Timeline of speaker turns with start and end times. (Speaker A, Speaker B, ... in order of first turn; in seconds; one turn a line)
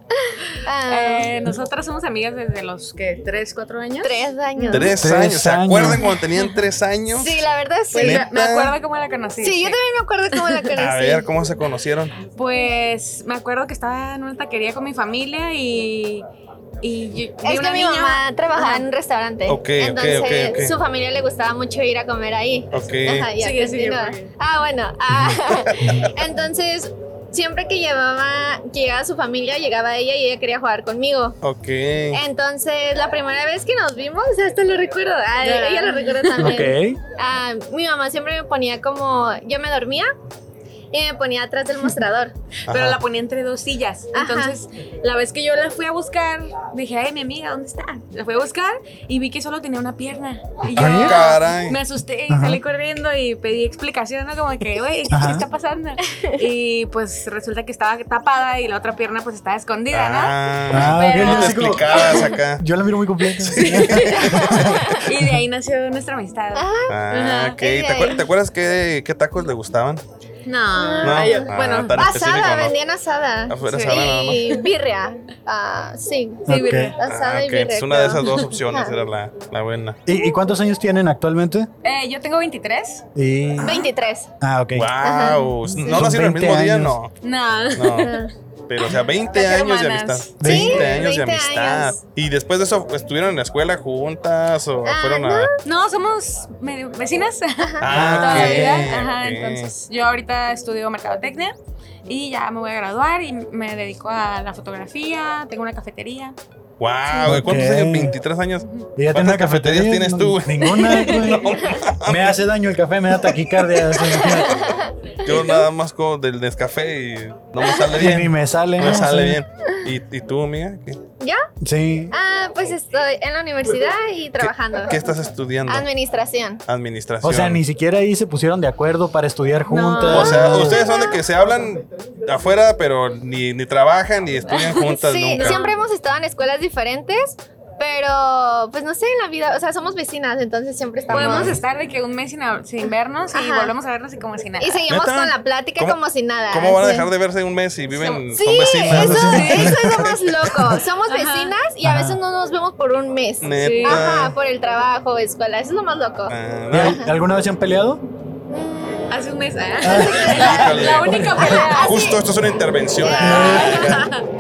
Speaker A: 0.3-1.4
Speaker B: 0.9-4.9
Speaker A: 4.0-5.0
Speaker C: 4.7-8.8
Speaker D: 5.0-6.1
Speaker A: 7.1-8.3
Speaker B: 7.9-9.8
Speaker A: 9.4-11.3
Speaker B: 10.3-10.7
Speaker C: 10.8-12.2
Speaker B: 12.3-16.3
Speaker B: 16.8-18.9
Speaker A: 17.4-31.4
Speaker C: 19.5-20.7
Speaker C: 22.7-23.3
Speaker B: 23.4-24.3
Speaker C: 25.5-25.9
Speaker C: 31.4-32.2
Speaker A: 32.1-40.1
Speaker B: 35.4-36.6
Speaker D: 36.4-37.0
Speaker A: 40.9-42.4
Speaker C: 42.7-43.0
Speaker B: 42.7-62.2
Speaker A: 44.1-44.6
Speaker C: 50.7-51.8
Speaker D: 50.8-51.2
Speaker D: 52.3-52.6
Speaker D: 55.1-55.5
Speaker C: 59.9-62.6
Speaker D: 60.7-65.3
Speaker C: 63.4-64.7
Speaker B: 63.5-67.6
Speaker A: 66.5-68.2
Speaker C: 66.9-70.0
Speaker B: 70.5-72.0
Speaker A: 70.8-78.9
Speaker C: 71.0-72.8
Speaker C: 73.5-74.4
Speaker B: 73.7-74.1
Speaker D: 76.5-76.9
Speaker B: 76.5-77.0
Speaker C: 77.0-80.0
Speaker D: 80.1-81.7
Speaker B: 81.8-83.1
Speaker D: 83.2-83.8
Speaker A: 83.6-84.3
Speaker D: 84.4-84.9
Speaker C: 84.8-87.1
Speaker A: 85.0-85.9
Speaker D: 85.9-87.0
Speaker B: 87.2-88.3
Speaker C: 87.8-88.2
Speaker A: 88.0-88.3
Speaker C: 88.7-95.5
Speaker B: 89.3-90.4
Speaker D: 90.4-90.9
Speaker A: 90.4-92.0
Speaker A: 94.8-95.5
Speaker B: 95.6-101.5
Speaker A: 97.7-98.7
Speaker C: 97.8-99.7
Speaker D: 97.9-98.8
Speaker B: 102.1-106.4
Speaker C: 106.8-112.4
Speaker D: 107.2-108.2
Speaker D: 109.0-114.6
Speaker B: 110.8-111.3
Speaker A: 114.2-115.7
Speaker C: 115.2-121.0
Speaker D: 118.0-119.4
Speaker A: 121.2-121.5
Speaker D: 121.6-122.1
Speaker A: 122.1-125.0
Speaker C: 124.4-125.9
Speaker A: 125.7-126.6
Speaker C: 126.7-127.6
Speaker D: 127.2-130.8
Speaker B: 129.7-130.5
Speaker C: 130.1-135.6
Speaker A: 130.1-131.2
Speaker B: 134.5-135.8
Speaker A: 135.0-141.6
Speaker B: 141.1-144.8
Speaker C: 141.2-141.5
Speaker A: 143.3-143.7
Speaker A: 144.6-147.1
Speaker C: 144.9-146.0
Speaker C: 146.5-150.1
Speaker A: 148.3-157.1
Speaker D: 148.9-150.1
Speaker B: 149.2-149.8
Speaker B: 151.1-151.5
Speaker D: 151.8-152.2
Speaker C: 153.4-154.3
Speaker B: 153.6-154.0
Speaker C: 156.3-157.0
Speaker D: 156.7-158.0
Speaker A: 158.5-159.2
Speaker B: 159.1-162.0
Speaker D: 159.8-160.4
Speaker C: 160.1-164.0
Speaker D: 161.1-161.6
Speaker A: 161.4-162.2
Speaker A: 163.0-164.1
Speaker D: 163.2-163.8
Speaker B: 163.3-164.3